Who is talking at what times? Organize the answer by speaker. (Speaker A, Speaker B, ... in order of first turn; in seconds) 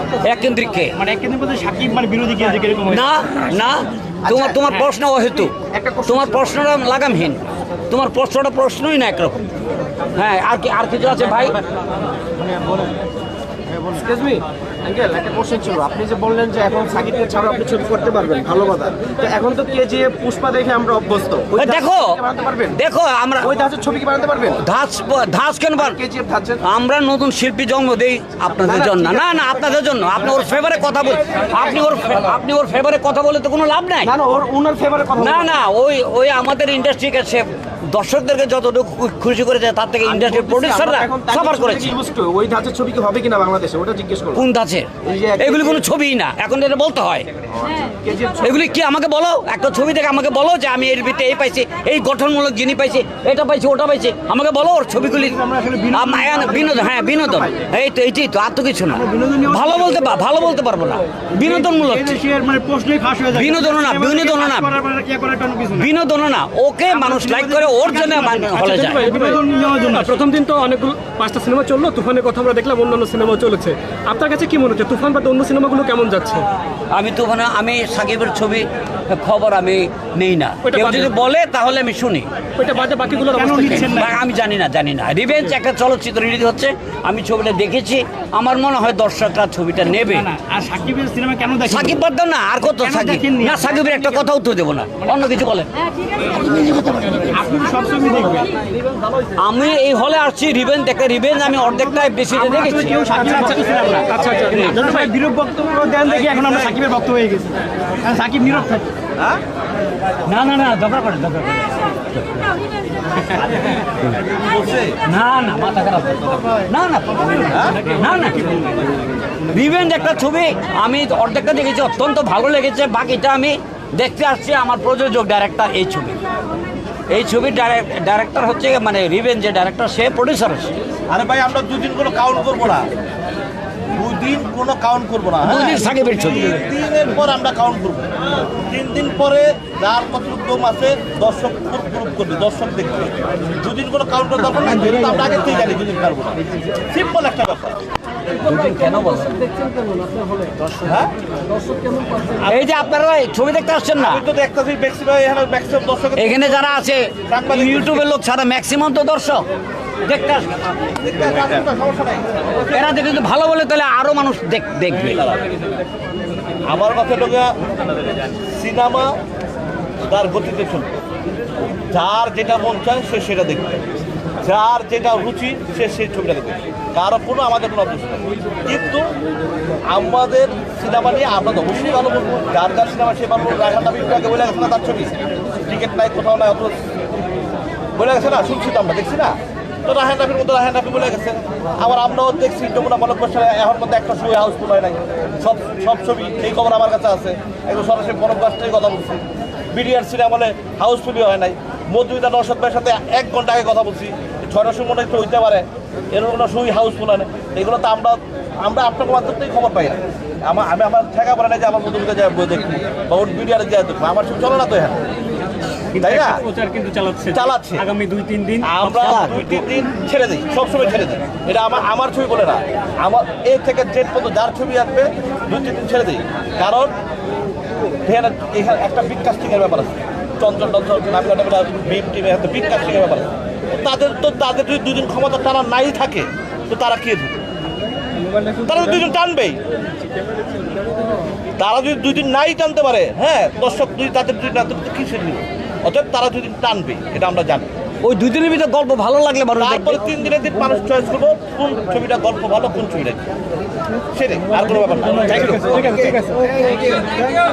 Speaker A: 0.2-0.9, 2.9-9.4, 10.2-11.6, 21.6-22.1, 22.7-23.7, 24.5-26.0, 26.6-34.1, 35.2-41.9, 44.3-47.3, 48.4-55.4, 55.9-62.2, 63.3-64.7, 65.7-69.1, 76.9-82.3, 83.9-90.3, 91.7-95.7, 96.3-97.3, 99.4-104.0, 110.2-112.4, 115.0-118.5, 119.5-126.2, 127.1-130.7, 135.4-136.5, 148.4-149.3, 152.4-154.2, 156.2-159.4, 160.0-160.6, 162.7-165.2, 215.9-219.6, 248.0-250.0
Speaker B: 0.9-3.1, 55.1-57.6, 58.9-60.1, 61.4-65.9, 66.9-70.2, 83.3-84.2, 90.0-92.0, 92.6-94.2, 97.3-98.5, 101.9-108.8, 255.7-256.4
Speaker C: 4.2-4.7, 5.3-6.6, 13.7-22.8, 23.4-24.6, 25.7-26.6, 28.6-29.2, 34.0-35.6, 40.0-44.4, 45.0-45.8, 47.6-48.5
Speaker D: 68.7-76.5, 80.6-81.1, 82.6-84.0, 104.1-105.1
Speaker E: 106.0-106.8, 114.3-115.0, 117.5-117.8, 131.1-132.9, 133.9-138.1, 138.7-147.8, 150.8-151.1, 152.2-152.9, 154.0-156.7, 157.3-158.1, 161.0-162.7, 165.1-165.4, 166.7-167.5, 168.3-169.2, 170.1-171.0, 171.9-173.8, 174.4-179.0, 179.9-185.1, 185.7-186.7, 187.9-215.0, 216.0-216.4, 217.3-217.8, 218.6-226.9, 228.0-237.4, 238.6-239.6, 241.6-247.7, 249.6-253.3, 254.1-256.2